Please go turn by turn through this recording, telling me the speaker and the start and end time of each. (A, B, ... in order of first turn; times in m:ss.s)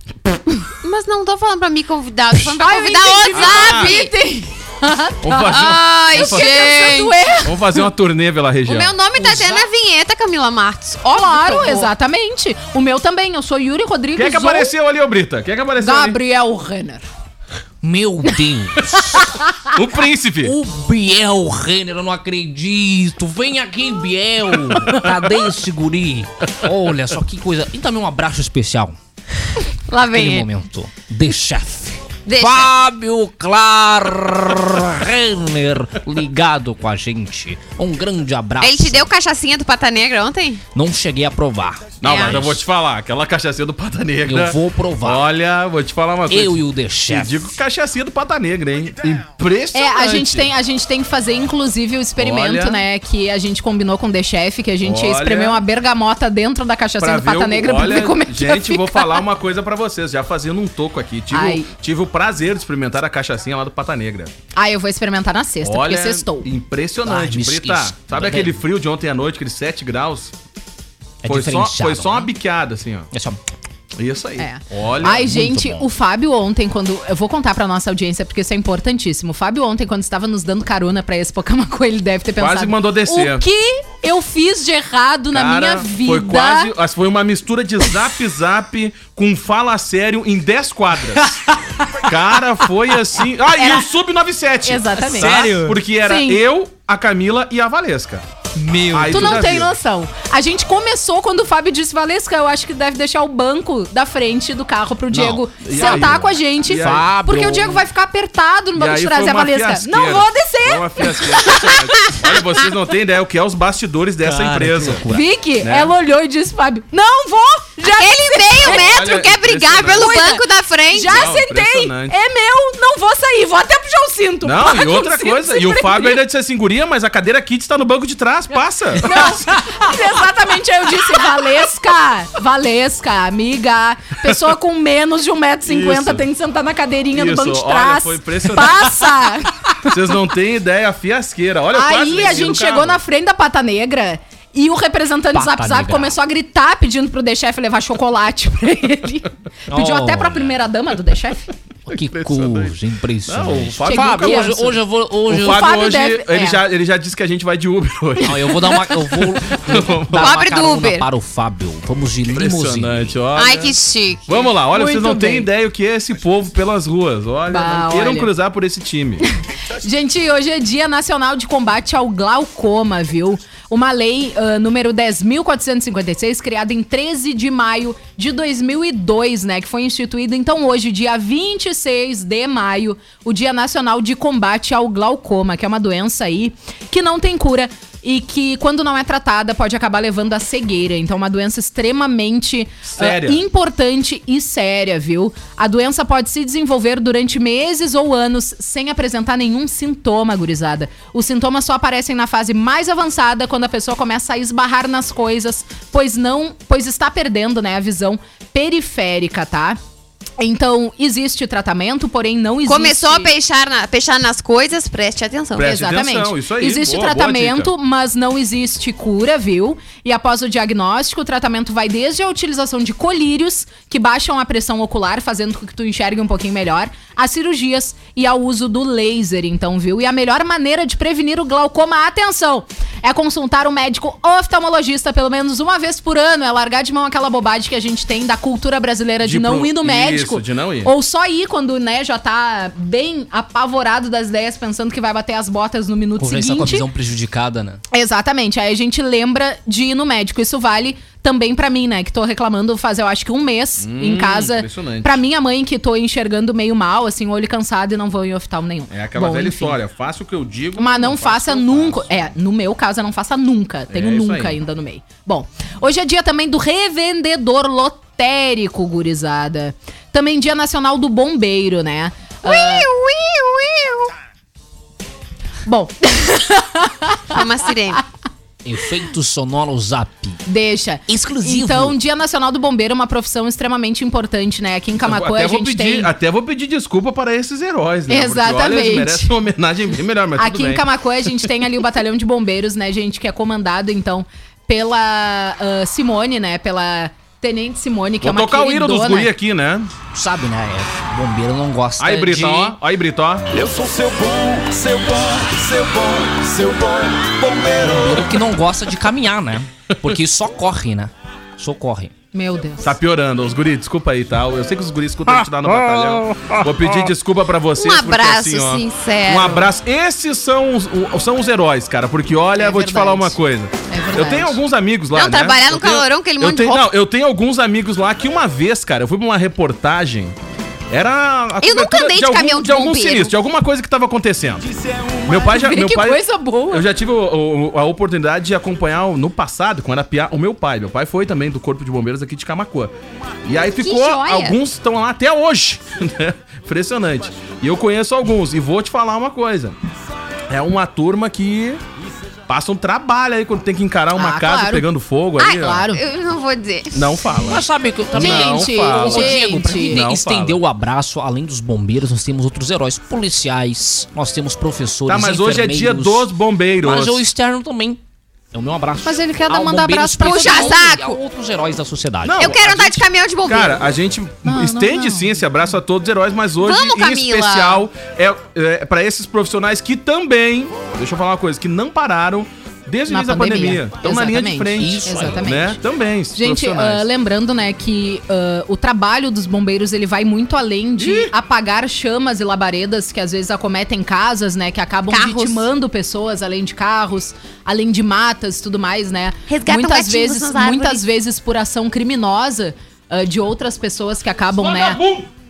0:00.8-0:04.1 A
0:02.6-0:07.8 B
0:03.3-0:04.0 C
0:05.2-0:06.5 C
0:05.5-0:07.2 A
0:07.4-0:08.9 C
0:08.7-0:11.9 A
0:09.2-0:09.7 D
0:11.1-0:14.7 B
0:14.2-0:16.2 C
0:15.8-0:17.0 B
0:17.8-0:19.2 D
0:19.1-0:19.5 B
0:19.7-0:20.6 C
0:20.4-0:29.0 D
0:29.9-0:30.5 A
0:30.0-0:39.1 D
0:32.3-0:32.7 A
0:38.6-0:40.6 A
0:40.7-0:42.6 D
0:42.0-0:50.5 C
0:42.0-0:42.5 A
0:44.2-0:45.3 D
0:46.3-0:47.6 D
0:49.7-0:59.2 B
0:52.2-0:52.8 C
0:54.8-0:55.6 C
0:57.0-1:04.3 C
1:01.3-1:01.7 B
1:04.6-1:06.5 B
1:05.6-1:10.3 C
1:07.0-1:08.6 D
1:11.2-1:12.3 D
1:11.3-1:13.1 C
1:13.1-1:13.4 D
1:14.0-1:15.4 C
1:14.4-1:26.7 B
1:15.0-1:15.9 D
1:22.4-1:23.4 C
1:25.3-1:31.4 C
1:31.5-1:32.1 B
1:32.0-1:38.2 C
1:33.5-1:33.9 B
1:34.6-1:36.4 B
1:35.2-1:35.8 D
1:38.6-1:39.5 D
1:38.9-1:39.7 C
1:39.1-1:52.1 B
1:45.1-1:47.1 C
1:45.7-1:47.8 D
1:48.8-1:55.1 C
1:54.2-1:55.3 D
1:55.1-1:59.0 B
1:55.6-1:55.9 C
1:58.0-2:01.3 A
1:58.6-2:00.2 C
1:59.9-2:06.2 B
2:01.0-2:02.2 C
2:04.4-2:09.5 C
2:09.0-2:19.9 B
2:15.6-2:16.3 C
2:17.1-2:19.2 C
2:19.8-2:23.0 C
2:21.7-2:31.5 B
2:25.3-2:26.2 D
2:29.7-2:30.6 D
2:31.9-2:35.8 D
2:32.0-2:32.8 C
2:33.3-2:34.8 C
2:33.9-2:34.7 B
2:35.3-2:40.3 C
2:35.3-2:36.6 B
2:38.2-2:43.2 D
2:40.2-2:41.1 A
2:42.3-2:43.8 C
2:43.4-2:44.5 A
2:44.3-2:49.2 C
2:44.7-2:45.5 B
2:47.5-2:48.3 B
2:49.8-3:29.8 B
3:12.9-3:13.4 C
3:30.4-3:33.3 B
3:32.7-3:35.7 A
3:35.6-3:37.7 C
3:35.6-4:06.9 B
3:59.2-4:00.9 C
4:06.2-4:07.8 D
4:07.9-4:19.8 B
4:13.8-4:15.2 C
4:18.9-4:22.2 C
4:20.8-4:32.9 B
4:23.9-4:24.6 C
4:32.4-4:34.1 A
4:35.7-4:37.4 B
4:37.3-4:38.0 A
4:38.6-4:40.4 D
4:40.5-4:46.1 B
4:41.1-4:42.0 D
4:45.0-4:50.8 C
4:48.1-4:49.3 B
4:50.4-4:59.3 B
4:58.2-4:59.9 C
5:00.1-5:02.8 D
5:02.0-5:03.4 C
5:03.5-5:08.3 E
5:07.8-5:12.1 D
5:12.3-5:12.9 B
5:12.8-5:30.4 C
5:15.3-5:17.1 D
5:17.8-5:19.7 A
5:22.6-5:23.3 A
5:22.9-5:23.1 B
5:23.9-5:24.6 B
5:25.1-5:27.0 A
5:30.9-5:34.7 C
5:31.6-5:33.3 A
5:34.7-5:35.3 E
5:35.3-5:42.9 C
5:35.3-5:36.9 B
5:43.4-5:49.8 C
5:43.6-5:44.6 A
5:50.5-5:51.8 C
5:52.5-5:55.9 C
5:54.2-5:54.9 B
5:55.4-5:57.2 A
5:55.6-5:56.0 B
5:56.9-6:00.6 C
5:57.4-6:08.0 D
5:58.2-6:00.0 B
6:05.1-6:07.2 C
6:08.5-6:12.6 D
6:09.0-6:10.8 B
6:10.2-6:11.2 A
6:12.2-6:27.1 C
6:12.4-6:13.9 A
6:14.4-6:15.4 B
6:16.6-6:17.8 A
6:23.1-6:25.8 B
6:24.8-6:25.5 D
6:26.3-6:45.0 B
6:31.0-6:31.3 C
6:35.1-6:35.7 A
6:39.5-6:41.0 A
6:44.6-6:45.3 C